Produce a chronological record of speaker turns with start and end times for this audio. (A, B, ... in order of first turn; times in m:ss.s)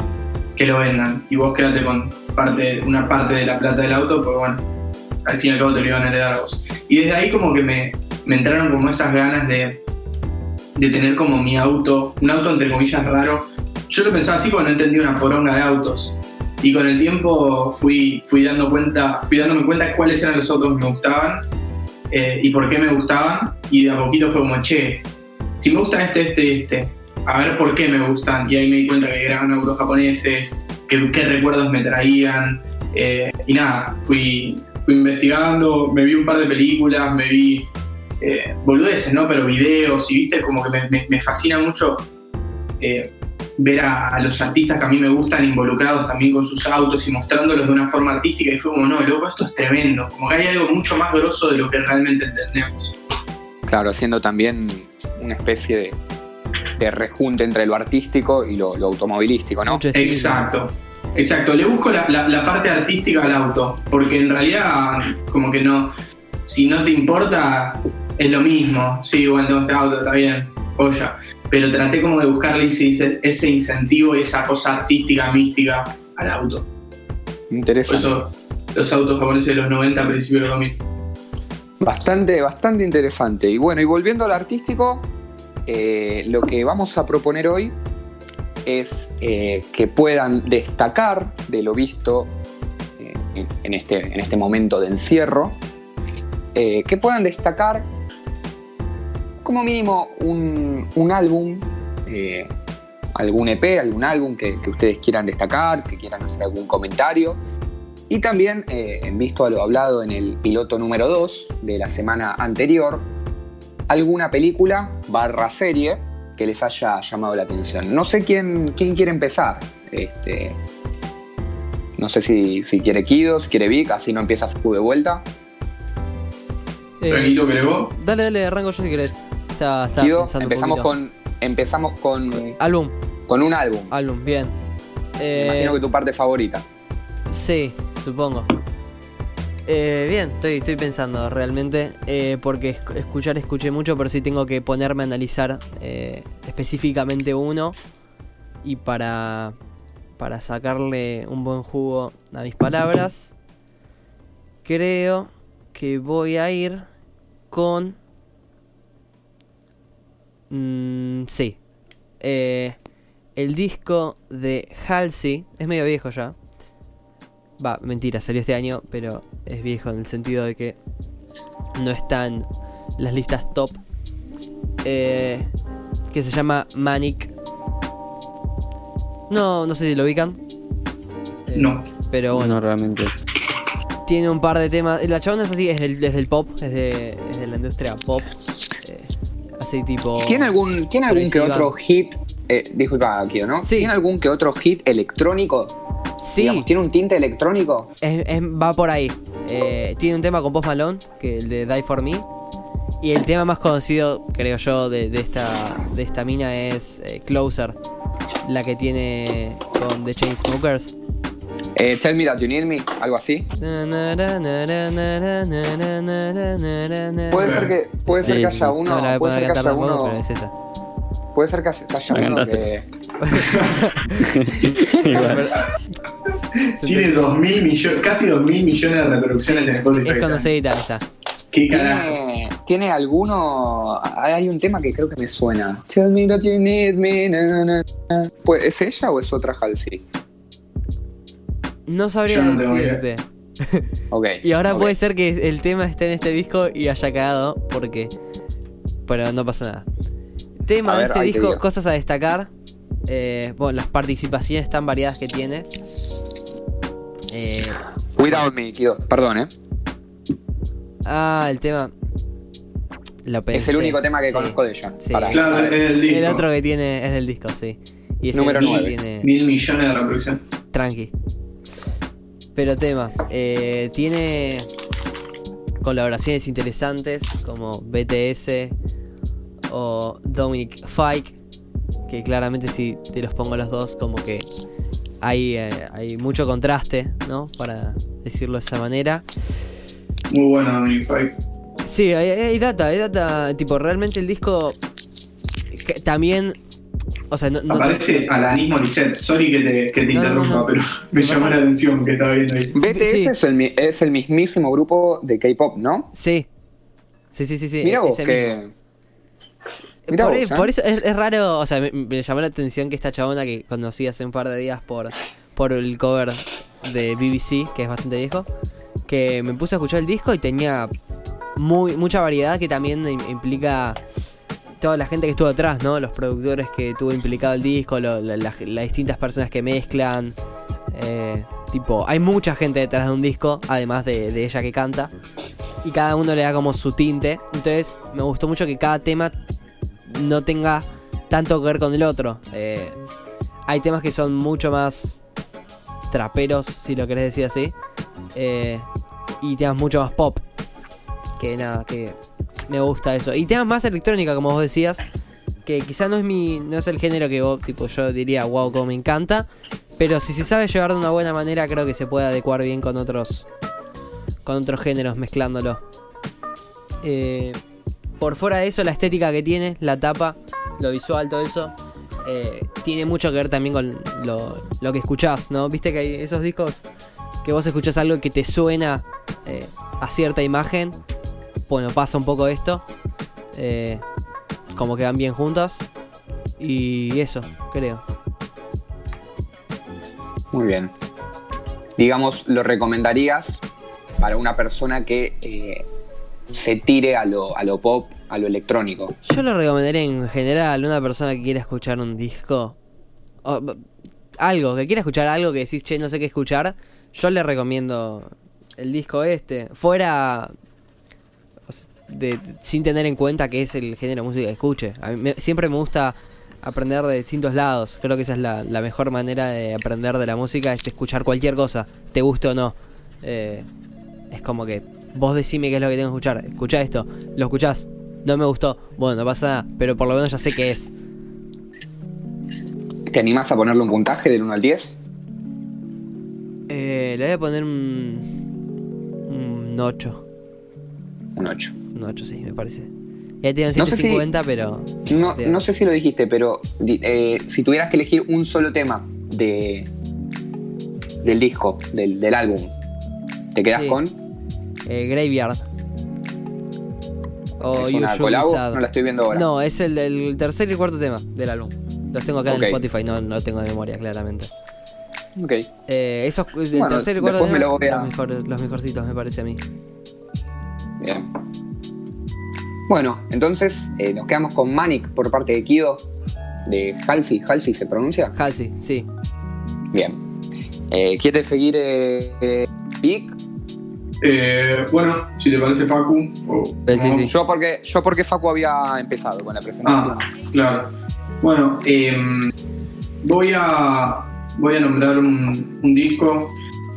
0:00.6-0:04.6 A
0:05.2-0:09.8 A
0:10.8-0:21.4 A
0:22.1-0:25.0 A
0:25.6-0:37.7 A
0:38.2-0:42.1 A
0:42.8-0:52.9 A
0:53.7-0:56.0 B
0:56.8-0:59.8 B
0:59.7-1:00.4 C
0:59.9-1:05.9 A
1:06.5-1:16.7 A
1:17.5-1:18.2 B
1:17.9-1:20.8 A
1:21.8-1:25.1 B
1:25.7-1:27.8 B
1:28.7-1:32.4 B
1:33.0-1:35.6 B
1:36.5-1:37.9 B
1:39.4-1:42.5 B
1:43.2-1:47.4 B
1:48.1-1:53.1 B
1:53.9-2:00.6 B
2:02.0-2:05.3 B
2:07.0-2:07.4 C
2:07.1-2:07.9 A
2:07.9-2:10.9 C
2:10.0-2:12.6 B
2:12.5-2:12.9 C
2:13.3-2:13.9 B
2:13.9-2:14.6 C
2:15.2-2:15.8 C
2:15.4-2:16.6 B
2:17.3-2:18.5 C
2:19.7-2:27.8 C
2:28.6-2:29.6 C
2:30.2-2:33.3 C
2:34.6-2:36.9 C
2:37.5-2:38.0 C
2:40.5-2:41.6 C
2:42.2-2:42.8 C
2:43.4-2:46.4 C
2:47.6-2:50.8 C
2:51.8-2:53.8 C
2:54.8-2:55.5 C
2:56.1-2:57.3 C
2:59.3-3:00.4 C
3:01.5-3:02.6 C
3:01.6-3:01.8 A
3:02.3-3:03.1 D
3:04.1-3:08.3 C
3:08.8-3:11.7 C
3:10.2-3:15.8 B
3:13.6-3:13.9 C
3:16.2-3:16.7 C
3:16.4-3:17.9 B
3:18.0-3:22.3 C
3:23.0-3:27.8 C
3:28.4-3:31.0 C
3:31.8-3:33.5 B
3:33.6-3:40.5 C
3:37.3-3:40.2 B
3:37.3-3:37.7 A
3:38.2-3:38.7 D
3:41.3-3:42.9 B
3:42.1-3:42.6 D
3:43.2-3:44.4 C
3:43.4-3:43.8 A
3:44.2-3:45.6 D
3:44.9-3:45.4 B
3:45.1-3:45.6 C
3:46.6-3:50.5 A
3:46.7-3:47.3 C
3:49.5-3:51.0 C
3:51.5-3:52.2 A
3:51.7-4:00.0 B
4:01.9-4:03.9 C
4:02.3-4:03.0 A
4:04.1-4:05.0 B
4:04.4-4:08.1 C
4:09.1-4:09.9 C
4:10.7-4:12.5 C
4:10.8-4:11.6 B
4:13.1-4:15.7 C
4:17.3-4:18.5 C
4:18.2-4:19.5 B
4:21.1-4:21.9 C
4:23.2-4:29.3 C
4:23.5-4:25.7 B
4:25.3-4:26.4 A
4:28.3-4:29.0 B
4:29.2-4:30.4 A
4:30.7-4:31.1 C
4:32.6-4:34.7 C
4:35.8-4:38.7 C
4:39.7-4:41.4 C
4:42.1-4:44.5 C
4:45.2-4:49.2 C
4:50.3-4:51.4 A
4:51.8-4:54.8 C
4:55.7-4:56.6 C
4:57.3-4:58.3 C
4:57.7-5:02.7 A
5:00.1-5:01.6 C
5:02.7-5:06.1 B
5:02.8-5:03.3 C
5:06.2-5:06.5 C
5:07.3-5:08.5 C
5:07.8-5:08.7 B
5:10.1-5:18.5 C
5:10.1-5:10.7 B
5:19.1-5:20.9 C
5:21.6-5:24.0 C
5:24.8-5:30.4 C
5:30.9-5:35.1 C
5:35.8-5:39.4 C
5:40.1-5:43.0 C
5:43.7-5:45.2 C
5:46.1-5:47.7 C
5:48.4-5:48.9 C
5:49.4-5:50.4 C
5:51.4-5:52.2 C
5:52.7-5:55.0 C
5:55.6-6:03.5 C
6:04.4-6:05.8 C
6:07.0-6:07.6 C
6:08.2-6:16.9 C
6:17.4-6:21.0 C
6:21.7-6:22.8 C
6:23.5-6:24.0 C
6:24.7-6:25.9 C
6:26.6-6:28.0 C
6:30.5-6:30.9 B
6:32.0-6:33.6 B
6:34.2-6:35.8 B
6:36.5-6:39.2 B
6:39.2-6:42.8 C
6:43.4-6:43.8 C
6:44.4-6:50.5 C
6:51.7-7:03.7 C
7:04.3-7:10.9 C
7:13.1-7:15.0 B
7:16.7-7:18.4 C
7:19.3-7:20.2 C
7:21.4-7:21.8 B
7:22.0-7:22.9 C
7:23.4-7:25.6 C
7:23.8-7:24.3 B
7:25.1-7:29.9 B
7:31.2-7:32.8 B
7:33.5-7:34.2 B
7:33.7-7:34.0 C
7:34.9-7:35.7 C
7:37.6-7:44.5 C
7:37.8-7:39.5 B
7:42.5-7:42.8 B
7:45.4-7:45.7 B
7:45.9-7:49.6 C
7:46.7-7:48.1 B
7:51.0-7:51.3 B
7:52.9-7:56.1 B
7:56.6-7:58.4 B
7:58.4-7:59.1 C
7:59.9-8:00.2 B
8:00.9-8:03.4 B
8:04.2-8:07.3 A
8:06.9-8:07.3 D
8:07.1-8:10.3 B
8:09.8-8:12.5 A
8:13.2-8:16.5 A